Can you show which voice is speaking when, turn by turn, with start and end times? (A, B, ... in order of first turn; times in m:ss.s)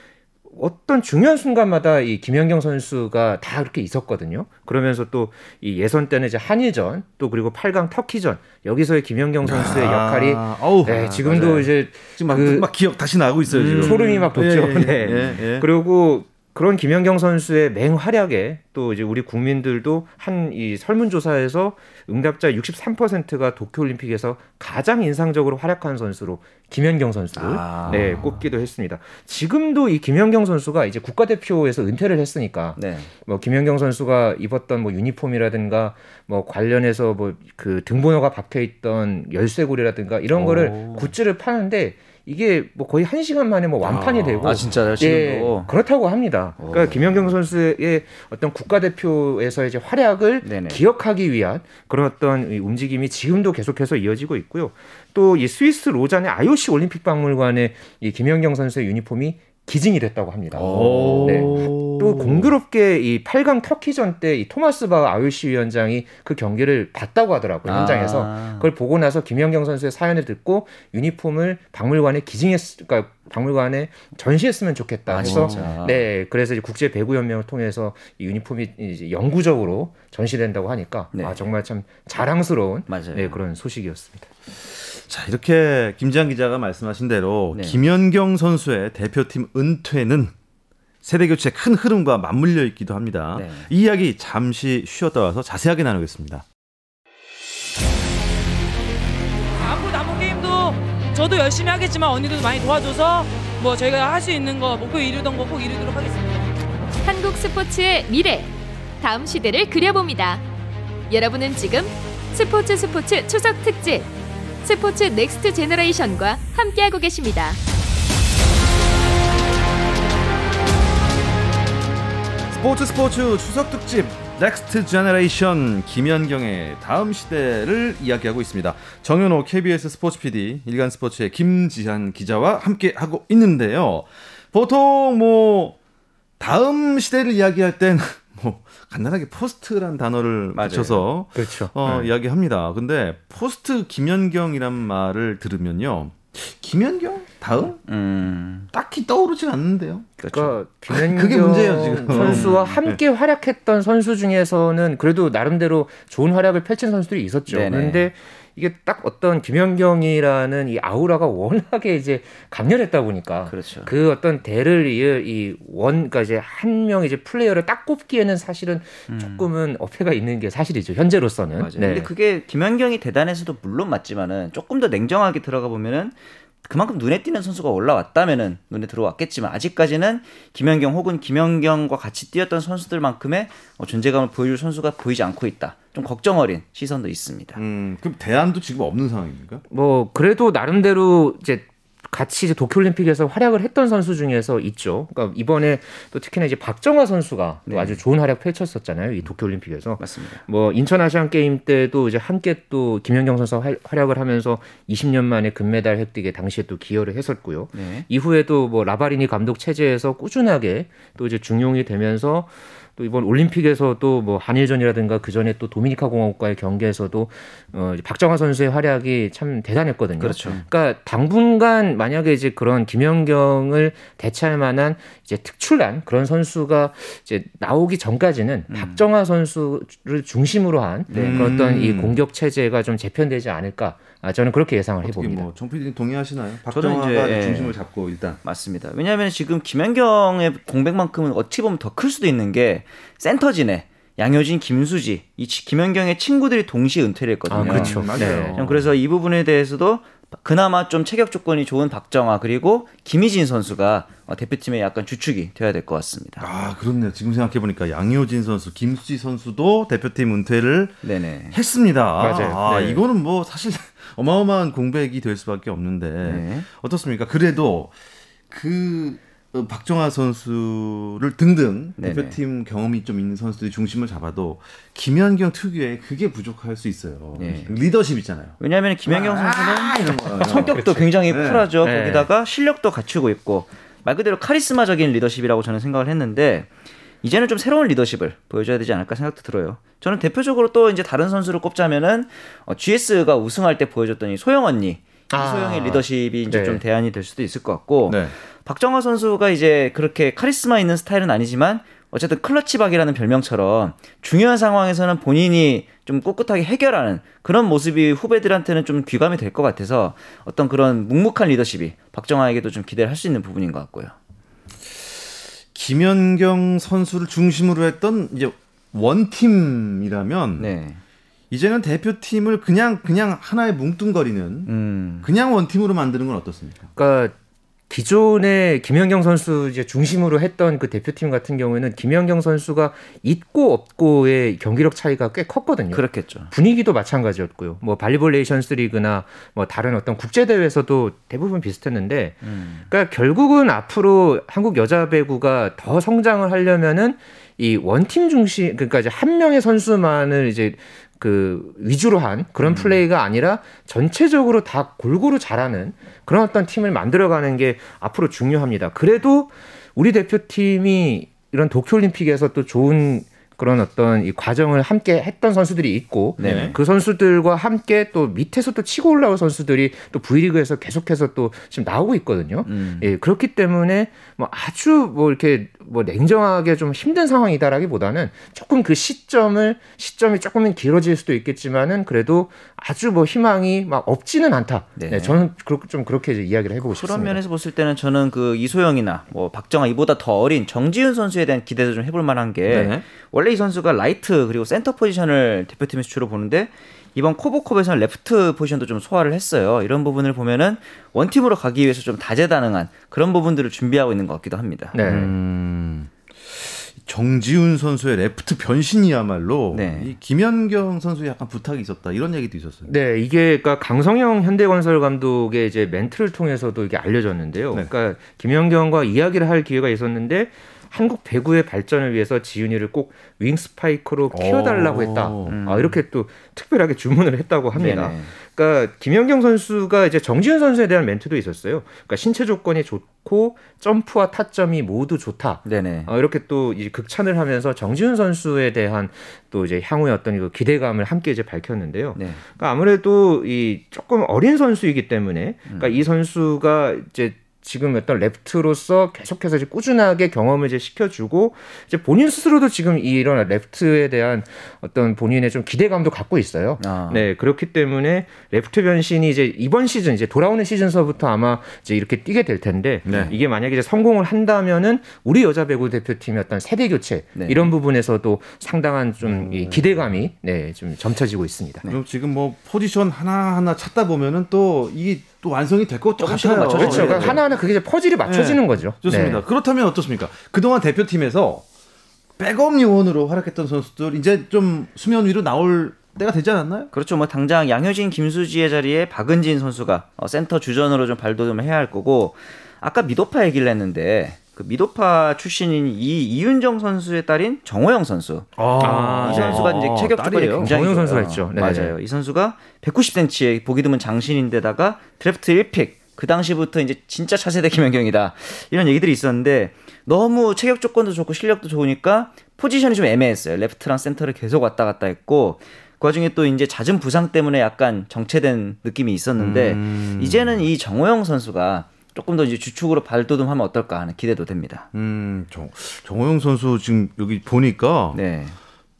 0:00.5-0:12.7 A
0:09.4-0:15.7 B
0:13.5-0:14.3 C
0:13.8-1:24.3 A
0:27.4-0:28.3 C
0:27.8-0:28.4 B
0:32.8-0:33.1 C
0:40.3-0:41.1 B
0:43.8-0:45.0 B
0:44.4-0:45.7 C
0:46.6-0:47.3 C
0:50.4-0:50.8 C
1:00.5-1:01.6 C
1:00.6-1:02.5 B
1:07.6-1:08.7 C
1:15.1-1:16.1 C
1:15.2-1:15.7 B
1:22.9-1:23.4 C
1:24.6-1:30.3 B
1:27.5-1:27.8 C
1:31.0-1:36.4 B
1:33.3-1:33.7 C
1:39.6-1:46.4 D
1:47.0-1:50.4 E
1:51.1-1:54.1 E
1:54.6-1:57.6 E
2:02.5-2:15.8 B
2:16.4-2:27.8 B
2:20.5-2:21.0 C
2:21.3-2:22.1 A
2:27.8-2:28.7 C
2:28.7-2:30.2 B
2:30.2-2:30.6 C
2:30.3-2:52.1 A
2:30.9-2:33.0 B
2:32.1-2:32.8 C
2:37.5-2:38.1 C
2:43.5-2:43.9 C
2:49.1-2:49.5 C
2:51.6-3:07.6 C
3:07.6-3:09.6 B
3:09.7-3:55.5 A
3:17.7-3:18.0 C
3:20.0-3:20.4 C
3:27.7-3:28.0 C
3:40.2-3:40.6 C
3:48.7-3:49.0 C
3:51.1-3:51.5 C
3:51.1-3:52.2 B
3:55.0-3:58.4 B
3:56.7-3:57.8 C
3:58.4-4:16.4 C
4:07.5-4:08.9 B
4:07.5-4:08.6 A
4:16.4-4:27.9 B
4:21.0-4:21.6 C
4:22.2-4:23.0 A
4:26.2-4:26.7 C
4:28.5-4:41.7 B
4:32.0-4:32.4 C
4:37.4-4:37.7 C
4:38.6-4:46.7 C
4:40.5-4:41.1 A
4:41.8-4:42.3 A
4:47.2-5:14.1 C
4:55.3-4:56.8 A
4:58.1-4:58.3 B
5:14.8-5:20.7 B
5:20.6-5:21.0 C
5:21.5-5:26.9 B
5:24.6-5:25.3 C
5:27.0-5:27.3 A
5:27.9-6:27.4 A
5:35.9-5:36.5 C
5:42.4-5:42.8 C
5:52.6-5:53.0 C
6:06.4-6:06.8 C
6:06.4-6:06.8 B
6:12.6-6:13.1 C
6:25.0-6:25.4 C
6:26.8-6:45.0 C
6:32.7-6:33.0 B
6:44.9-6:45.3 A
6:45.0-6:52.9 B
6:49.7-6:50.1 C
6:52.9-7:51.8 A
7:04.3-7:05.6 B
7:05.5-7:05.9 C
7:07.7-7:08.3 C
7:15.6-7:16.1 C
7:22.1-7:22.4 C
7:25.7-7:26.0 C
7:36.8-7:37.3 C
7:43.0-7:43.3 B
7:43.1-7:43.3 C
7:47.4-7:47.7 C
7:49.2-7:50.2 B
7:51.9-7:57.5 B
7:56.2-7:57.4 C
7:56.7-7:59.4 A
7:58.2-8:01.6 B
8:02.4-8:06.9 B
8:06.9-8:44.8 C
8:18.6-8:20.8 B
8:18.8-8:19.7 A
8:20.6-8:22.0 A
8:39.4-8:40.6 B
8:44.9-8:48.2 B
8:48.1-8:48.6 C